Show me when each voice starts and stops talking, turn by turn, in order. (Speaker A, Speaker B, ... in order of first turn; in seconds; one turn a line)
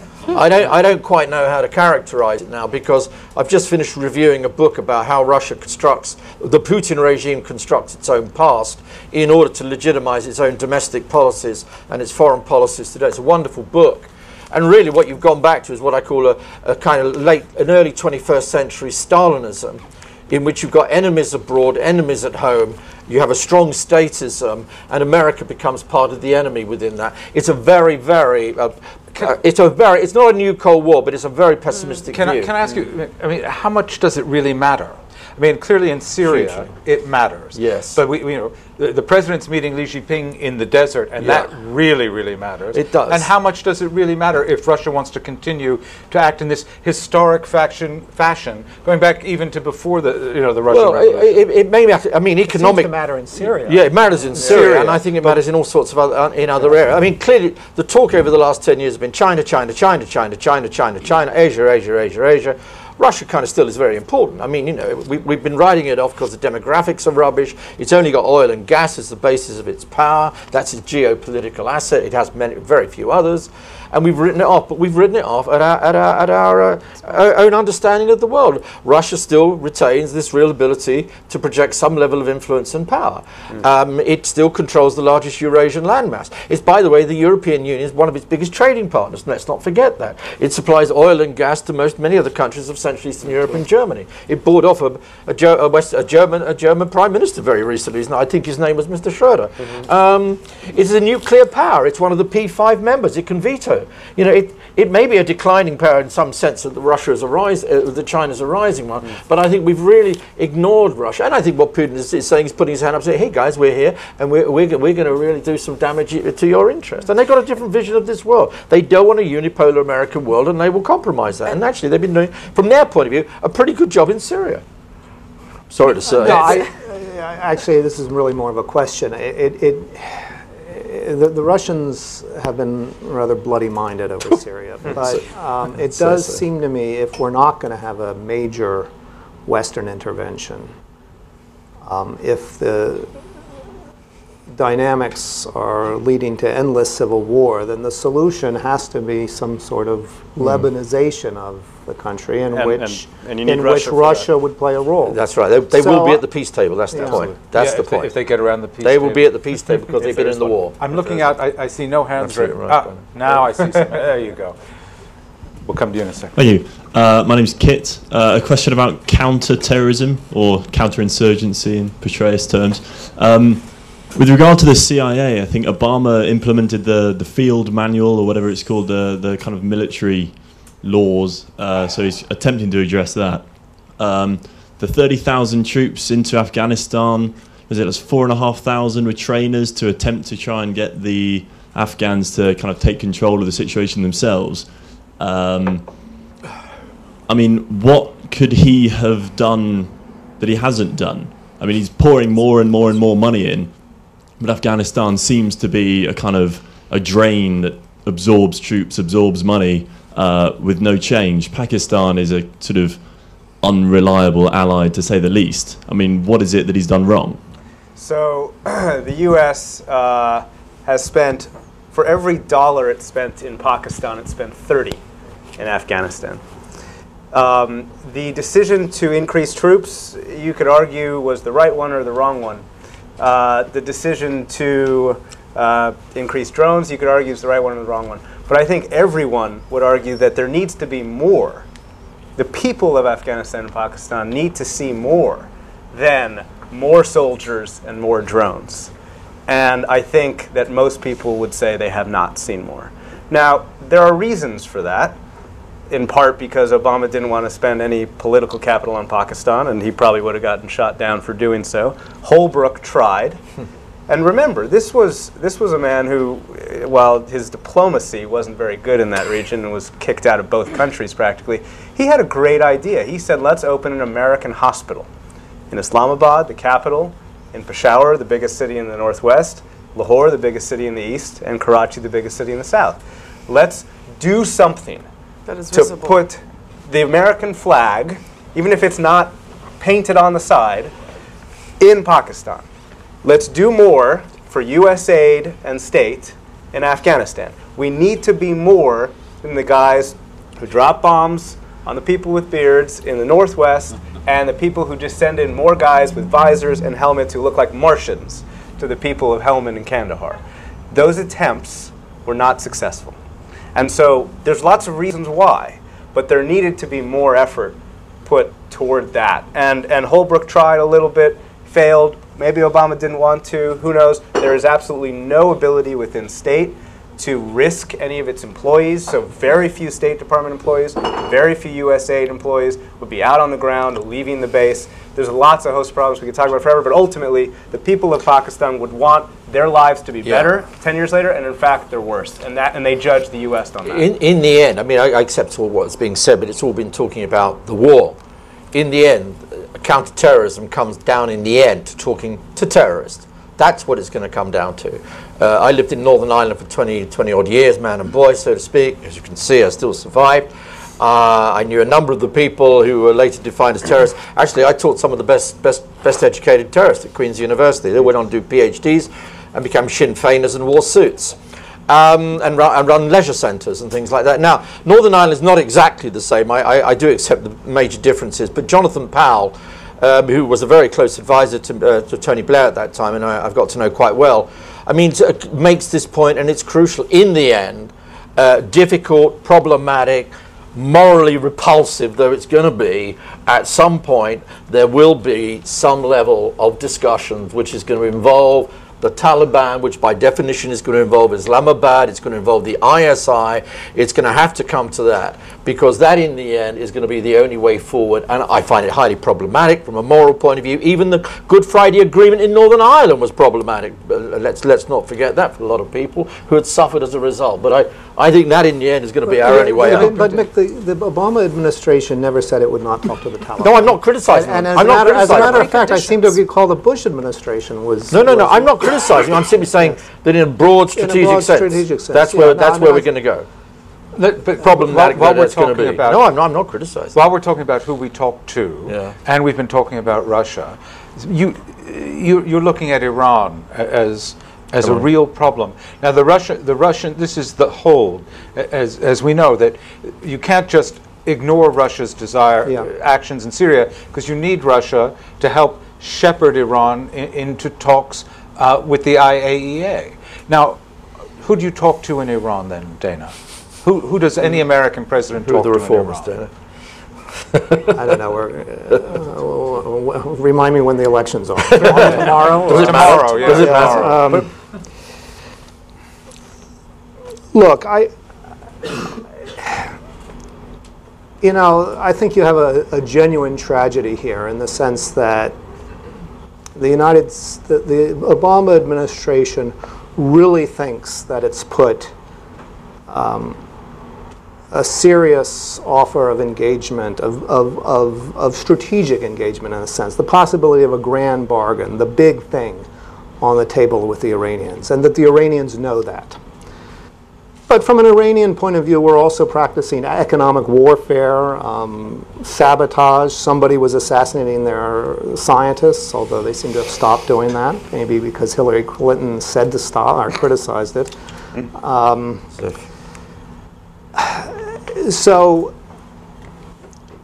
Speaker A: 0.3-32.8
Speaker B: 32.1-51.4
Speaker A: 36.2-36.7
Speaker A: 37.5-38.0
Speaker A: 41.2-41.5
Speaker A: 42.7-43.3
Speaker A: 50.7-52.9
Speaker C: 52.4-53.9
Speaker A: 53.6-124.6
Speaker C: 54.4-54.7
Speaker B: 54.4-55.4
Speaker A: 125.7-126.7
Speaker C: 126.1-138.9
Speaker A: 134.9-136.4
Speaker C: 139.5-140.7
Speaker C: 141.8-143.1
Speaker C: 144.5-155.2
Speaker A: 150.4-150.7
Speaker D: 152.5-154.3
Speaker A: 155.1-158.2
Speaker C: 155.7-156.2
Speaker C: 156.9-157.3
Speaker B: 157.4-164.6
Speaker A: 158.8-161.3
Speaker A: 162.2-163.9
Speaker B: 165.7-166.3
Speaker E: 166.3-195.9
Speaker E: 197.3-203.8
Speaker E: 204.4-213.1
Speaker E: 213.6-217.4
Speaker D: 218.0-225.0
Speaker D: 225.6-226.4
Speaker D: 227.3-232.7
Speaker D: 233.2-241.7
Speaker D: 242.4-248.9
Speaker D: 249.5-255.2
Speaker D: 255.9-263.4
Speaker D: 264.1-275.1
Speaker D: 275.7-285.1
Speaker F: 285.5-286.3
Speaker D: 285.7-290.9
Speaker D: 291.8-292.7
Speaker D: 293.2-313.2
Speaker D: 313.8-344.1
Speaker A: 340.2-340.5
Speaker A: 343.9-348.2
Speaker A: 348.7-371.4
Speaker A: 371.9-420.4
Speaker C: 419.3-429.1
Speaker B: 419.8-420.1
Speaker A: 423.6-425.7
Speaker F: 425.1-426.4
Speaker A: 428.1-433.5
Speaker C: 430.9-433.1
Speaker B: 434.2-436.3
Speaker A: 434.6-437.2
Speaker B: 437.1-460.8
Speaker A: 438.9-439.1
Speaker A: 444.8-445.1
Speaker B: 461.4-466.3
Speaker A: 465.4-466.5
Speaker A: 467.6-467.9
Speaker C: 467.9-474.5
Speaker A: 471.7-474.4
Speaker B: 471.8-474.4
Speaker C: 477.5-478.1
Speaker C: 479.6-479.9
Speaker C: 481.4-485.6
Speaker C: 486.8-492.1
Speaker C: 493.1-493.6
Speaker C: 494.7-502.9
Speaker C: 503.4-506.4
Speaker C: 507.7-521.1
Speaker C: 521.7-522.5
Speaker C: 524.1-525.7